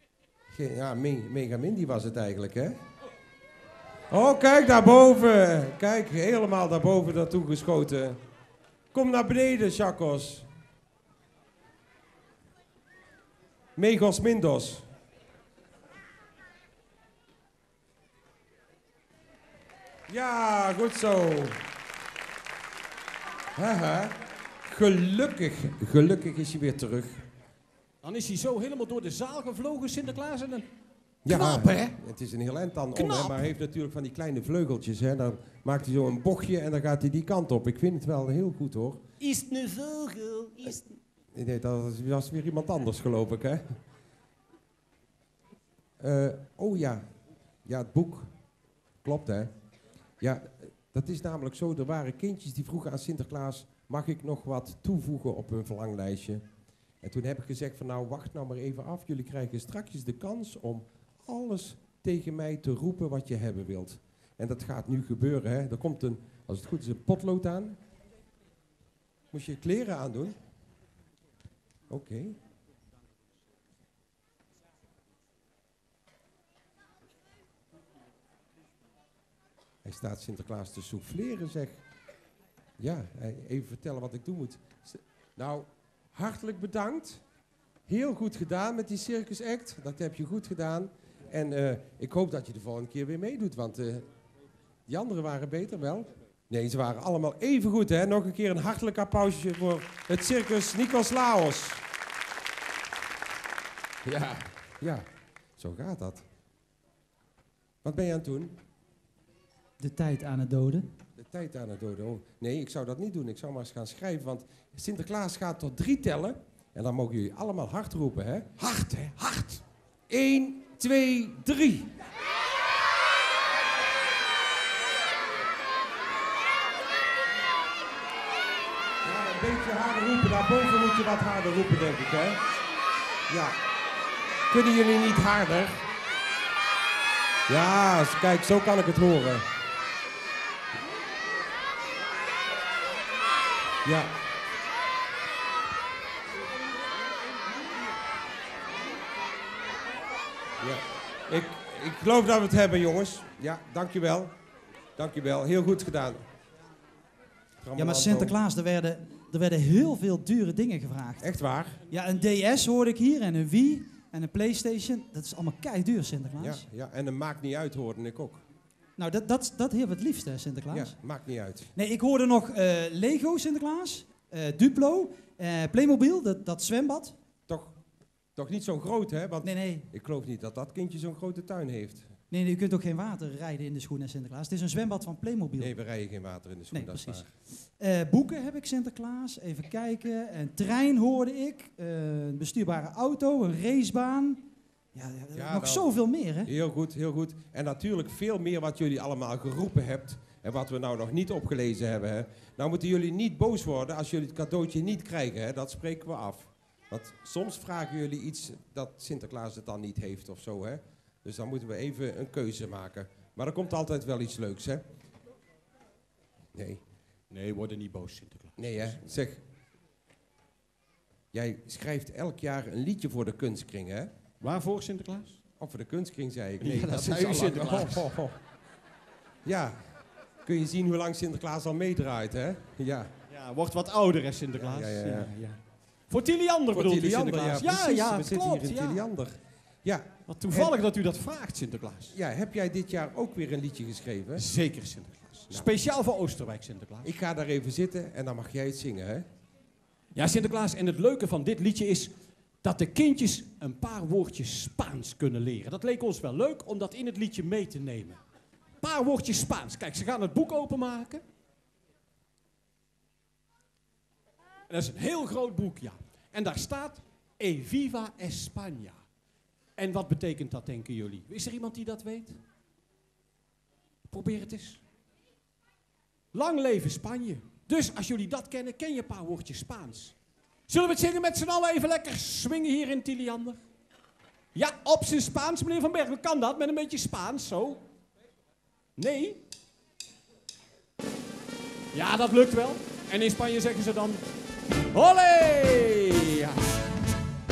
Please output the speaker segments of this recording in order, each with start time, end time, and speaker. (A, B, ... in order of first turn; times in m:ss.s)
0:00.5-0:02.8 A
0:04.1-0:08.2 A
0:08.9-0:10.5 A
0:13.8-0:14.9 A
0:20.1-0:21.6 A
0:23.6-0:27.2 A
0:28.0-0:30.6 B
0:31.2-0:39.0 A
0:31.3-0:32.0 B
0:33.0-0:33.5 B
0:39.2-0:40.9 B
0:41.3-0:43.6 A
0:46.0-0:47.0 A
0:47.6-0:48.3 A
0:49.0-0:49.5 A
0:50.2-0:56.5 A
0:57.0-1:07.8 A
1:09.3-1:10.4 A
1:11.9-1:12.4 A
1:19.8-1:21.8 A
1:22.8-1:27.2 A
1:27.9-1:34.1 A
1:34.9-1:41.8 A
1:44.0-1:45.0 A
1:45.6-1:46.2 A
1:47.8-1:48.6 A
1:49.8-1:50.9 C
1:51.2-1:58.6 A
1:58.6-1:59.6 B
2:00.1-2:01.9 A
2:09.0-2:12.4 A
2:13.3-2:13.6 A
2:14.5-2:15.8 A
2:17.5-2:19.4 A
2:23.8-2:24.1 A
2:30.6-2:34.3 A
2:35.0-2:36.2 A
2:37.6-2:38.4 A
2:37.8-2:41.3 C
2:41.2-2:41.8 A
2:41.9-2:46.6 C
2:46.4-2:48.4 A
2:49.0-2:51.0 C
2:50.7-2:51.7 A
2:51.8-2:57.2 C
2:57.5-2:57.8 A
2:58.4-3:02.1 A
2:59.4-2:59.9 C
3:02.3-3:05.8 C
3:05.6-3:07.3 A
3:06.7-3:14.4 C
3:14.9-3:16.5 C
3:15.3-3:15.9 A
3:16.5-3:34.8 A
3:36.6-3:36.8 A
3:37.3-3:39.1 B
3:38.6-3:39.4 A
3:41.3-3:44.1 A
3:44.4-3:45.4 B
3:45.6-3:48.4 A
3:46.6-3:48.1 B
3:49.4-3:49.8 A
3:50.4-3:53.1 A
3:53.3-3:59.1 B
3:54.6-3:55.3 A
3:56.7-4:00.8 A
4:00.3-4:02.2 B
4:02.1-4:04.5 A
4:04.4-4:07.1 B
4:07.0-4:09.3 A
4:10.1-4:12.1 B
4:12.6-4:18.2 B
4:18.8-4:21.2 B
4:24.7-4:29.0 B
4:29.8-4:32.4 B
4:34.1-4:34.8 B
4:36.3-4:40.2 B
4:40.7-4:43.6 B
4:44.6-4:47.8 B
4:49.0-4:49.4 B
4:51.9-4:54.2 B
4:54.9-4:56.7 B